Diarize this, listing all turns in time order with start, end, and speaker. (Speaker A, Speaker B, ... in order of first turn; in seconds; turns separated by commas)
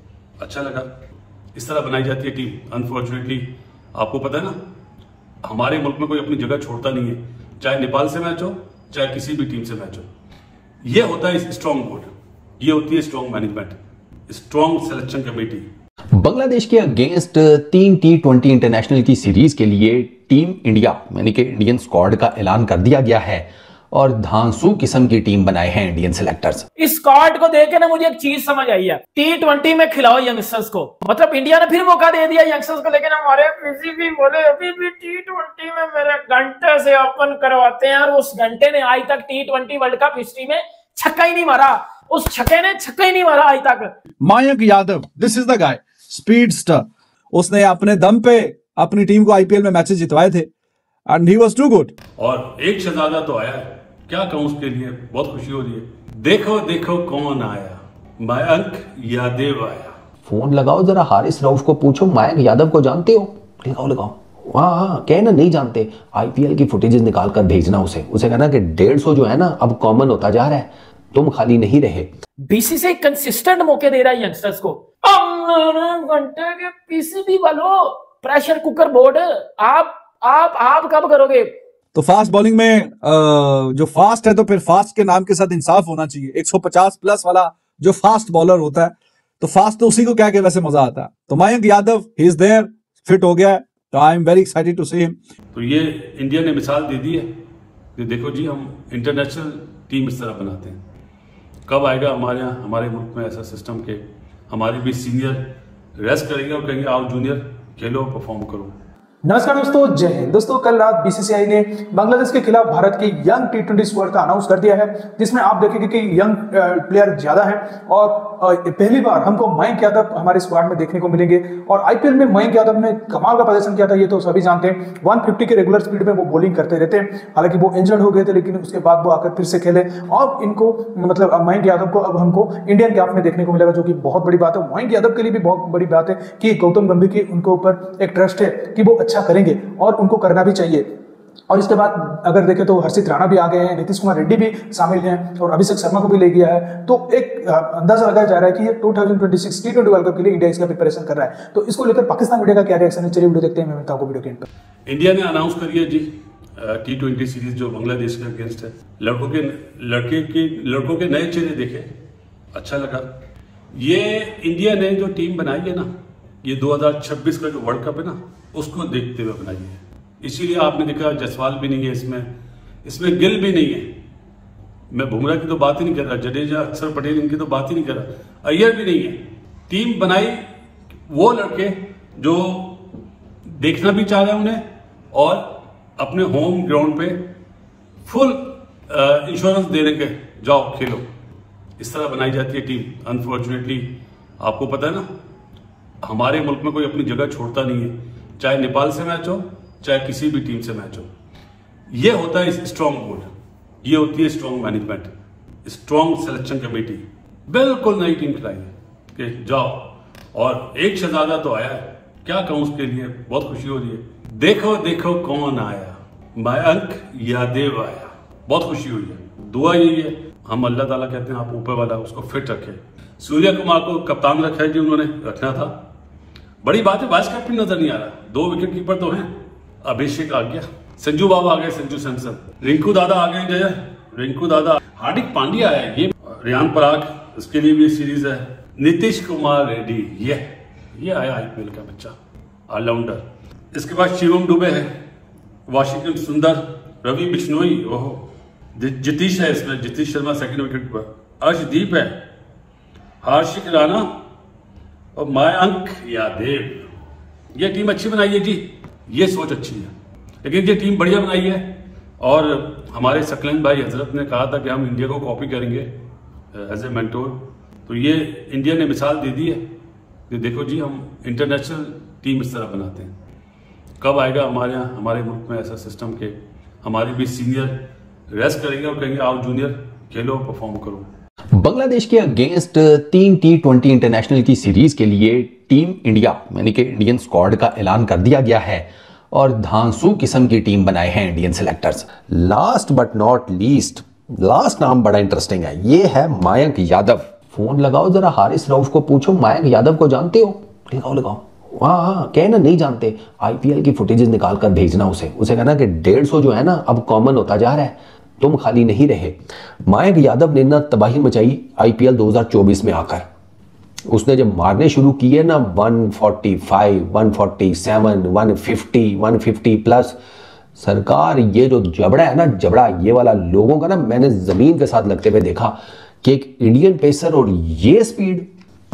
Speaker A: 0.4-0.9, Speaker A: 1.6-4.5, Speaker A: 5.4-10.1, Speaker A: 10.8-15.7, Speaker B: 16.1-26.6, Speaker C: 26.8-43.9, Speaker D: 44.2-50.5, Speaker D: 51.1-51.9, Speaker A: 52.2-59.9, Speaker B: 60.3-72.1, Speaker C: 72.5-81.5, Speaker D: 82.0-95.2, Speaker A: 95.5-97.3, Speaker A: 98.0-100.8, Speaker A: 101.7-105.4, Speaker A: 106.0-108.7, Speaker E: 109.2-140.9, Speaker E: 141.5-154.4, Speaker A: 154.9-161.9, Speaker A: 162.5-163.1, Speaker A: 163.8-165.9, Speaker A: 166.4-172.3, Speaker A: 172.8-173.9, Speaker A: 174.9-180.4, Speaker A: 181.1-182.8, Speaker A: 183.6-187.2, Speaker A: 188.1-191.1, Speaker A: 191.8-193.9, Speaker A: 194.4-195.0, Speaker A: 196.0-201.1, Speaker A: 201.9-203.3, Speaker A: 203.8-205.1, Speaker A: 205.6-225.7, Speaker A: 226.6-229.3, Speaker A: 229.8-242.1, Speaker A: 242.7-244.9, Speaker A: 245.7-252.1, Speaker A: 253.2-254.1, Speaker A: 255.2-256.9, Speaker A: 257.6-259.9, Speaker A: 260.4-261.7, Speaker A: 262.2-265.9, Speaker A: 266.5-269.6, Speaker A: 270.3-273.1, Speaker A: 274.0-277.8, Speaker A: 278.3-281.1, Speaker B: 281.5-313.2, Speaker B: 314.1-320.2, Speaker B: 320.8-328.5